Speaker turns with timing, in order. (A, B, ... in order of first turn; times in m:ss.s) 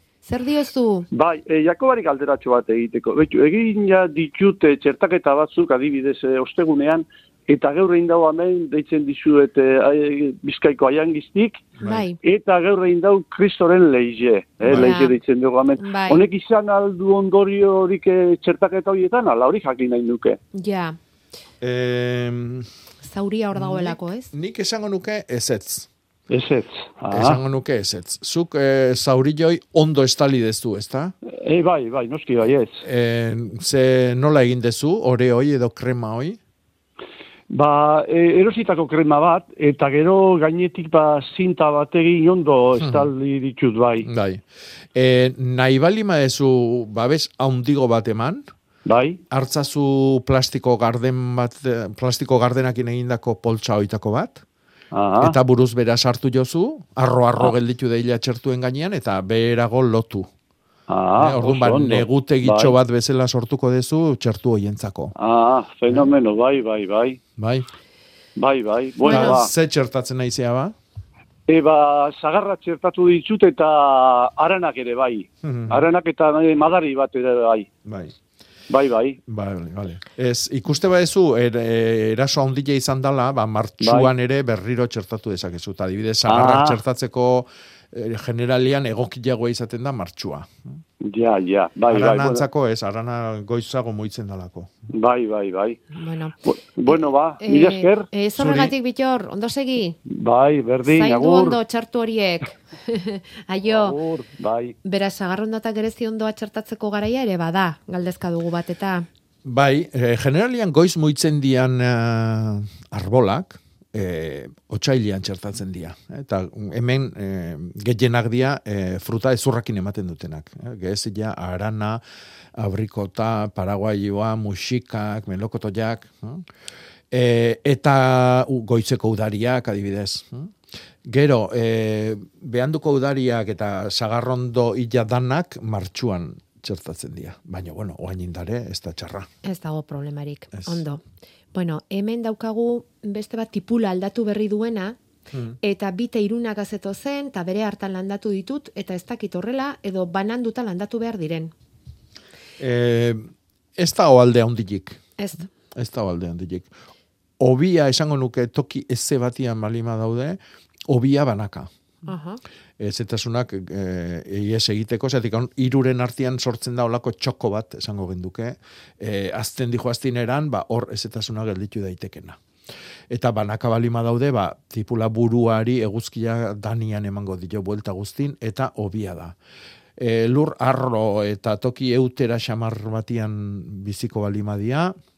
0:00.2-0:01.1 A
0:01.1-0:11.7 B
0:11.8-0:12.1 C
0:11.8-0:12.2 A
0:12.2-0:20.4 B
0:14.6-0:15.0 C
0:14.7-0:15.2 A
0:15.8-0:16.2 A
0:20.5-0:21.0 A
0:21.6-0:22.7 C
0:23.0-0:24.3 A
0:23.5-0:25.9 C
0:26.3-0:27.4 B
0:27.1-0:31.1 C
0:31.2-0:32.8 B
0:32.8-0:36.4 C
0:37.5-0:44.1 B
0:42.8-0:43.1 C
0:44.0-0:44.4 C
0:44.9-0:48.4 C
0:48.8-0:49.2 B
0:49.3-0:54.4 C
0:54.9-0:55.4 B
0:55.2-1:00.3 C
1:00.9-1:02.8 B
1:01.2-1:05.1 C
1:05.2-1:07.2 B
1:07.4-1:07.7 C
1:08.4-1:09.5 B
1:09.0-1:10.7 C
1:09.0-1:09.4 A
1:11.5-1:17.7 B
1:15.4-1:15.9 C
1:17.8-1:18.1 C
1:18.7-1:19.2 B
1:19.2-1:30.7 C
1:23.8-1:24.1 B
1:26.3-1:26.8 B
1:31.0-1:32.4 B
1:31.9-1:34.7 C
1:34.9-1:35.8 B
1:35.9-1:36.4 A
1:36.4-1:38.1 B
1:36.9-1:40.0 A
1:38.4-1:38.7 C
1:40.0-1:41.6 B
1:40.8-1:44.0 A
1:43.6-1:44.7 B
1:44.8-1:49.1 A
1:49.4-2:02.0 C
2:02.6-2:06.4 C
2:07.1-2:10.5 C
2:11.0-2:19.3 C
2:19.4-2:21.0 A
2:20.5-2:20.8 C
2:21.5-2:25.0 A
2:25.3-2:25.6 C
2:25.6-2:31.5 A
2:32.6-2:35.0 C
2:35.2-2:35.5 A
2:35.6-2:36.7 C
2:37.4-2:41.7 C
2:42.0-2:42.4 A
2:42.8-2:52.4 C
2:53.1-2:59.3 C
3:00.0-3:04.9 C